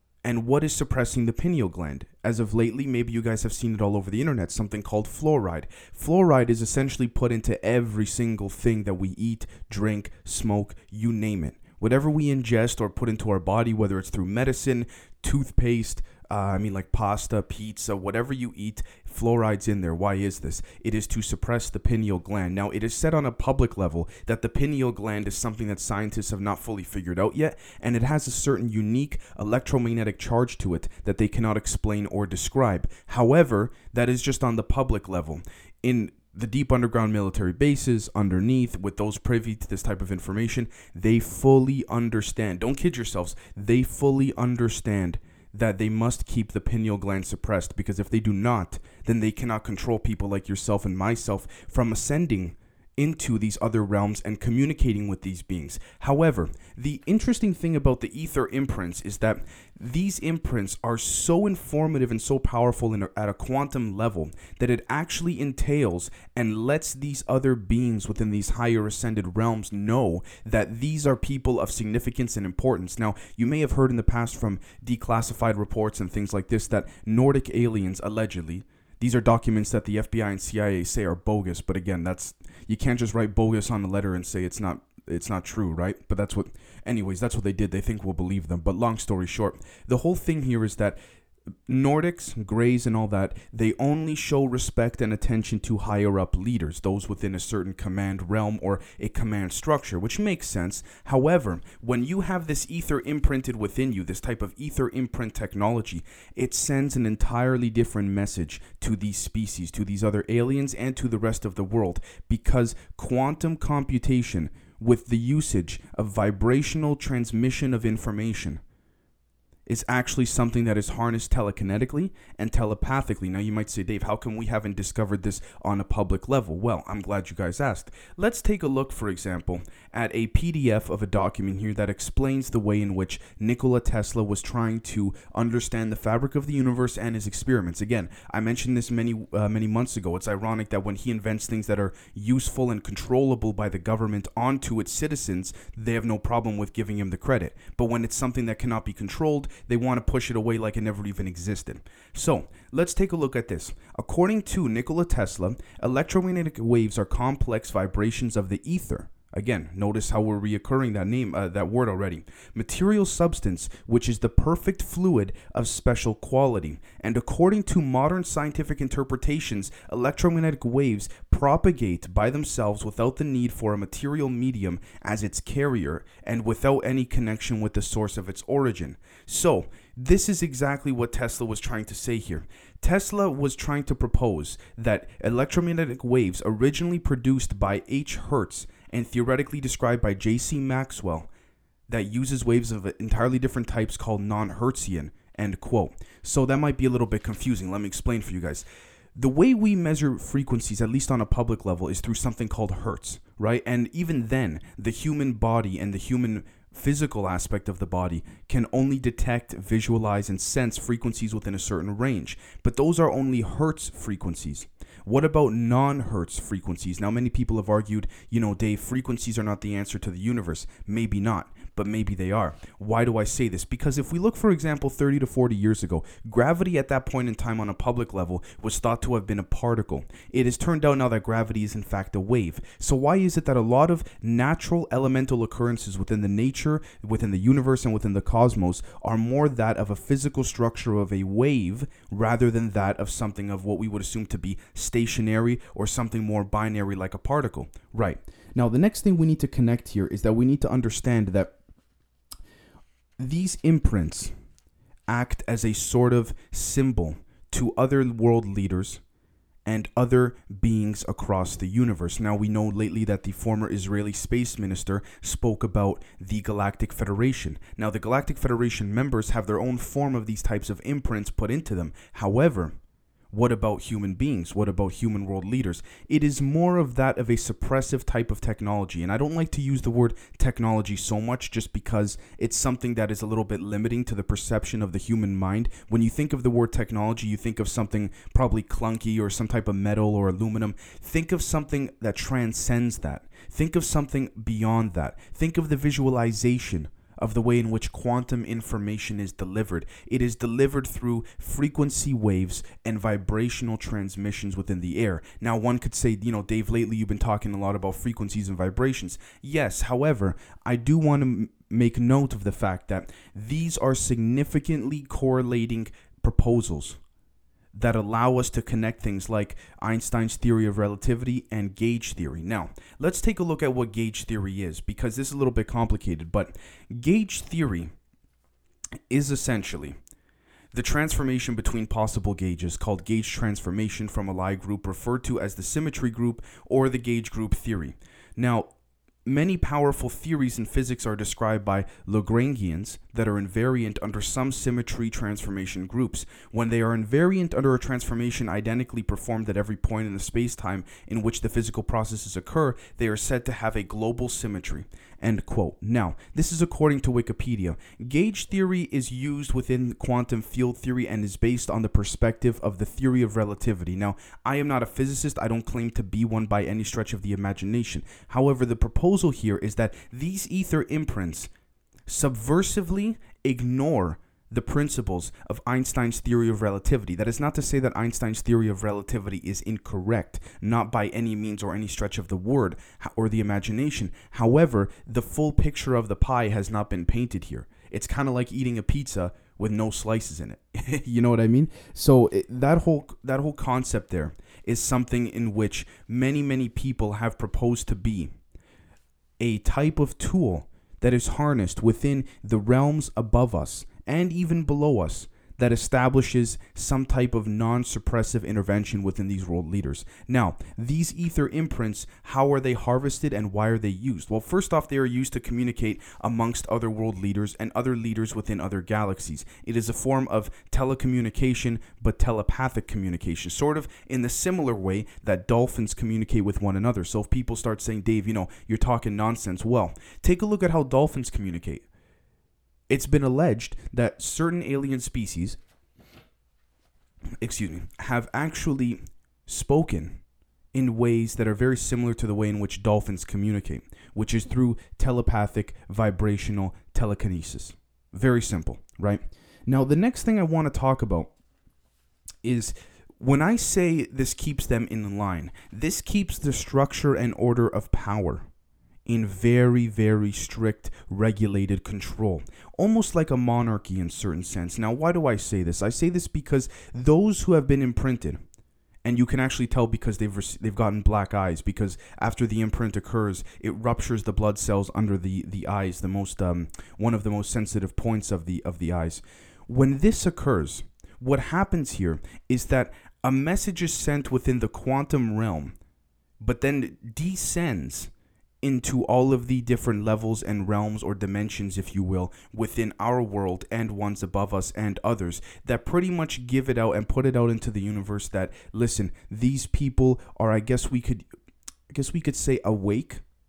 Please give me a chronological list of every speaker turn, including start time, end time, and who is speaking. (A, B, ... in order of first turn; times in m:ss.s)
0:00.2-1:31.0 A
1:31.7-1:58.6 A
1:59.7-3:11.3 A
3:11.9-4:11.5 A
4:13.2-4:14.3 A
4:15.1-4:19.0 A
4:19.6-4:32.7 A
4:33.3-5:17.0 A
5:17.7-5:27.9 A
5:29.1-5:30.0 A
5:30.7-5:38.7 A
5:39.2-6:11.5 A
6:12.1-6:38.3 A
6:39.4-7:11.8 A
7:12.9-7:15.6 A
7:17.4-7:20.2 A
7:20.7-7:31.3 A
7:32.4-7:38.5 A
7:39.1-7:48.4 A
7:49.0-8:05.7 A
8:06.4-8:08.1 A
8:08.6-8:21.3 A
8:21.9-8:23.2 A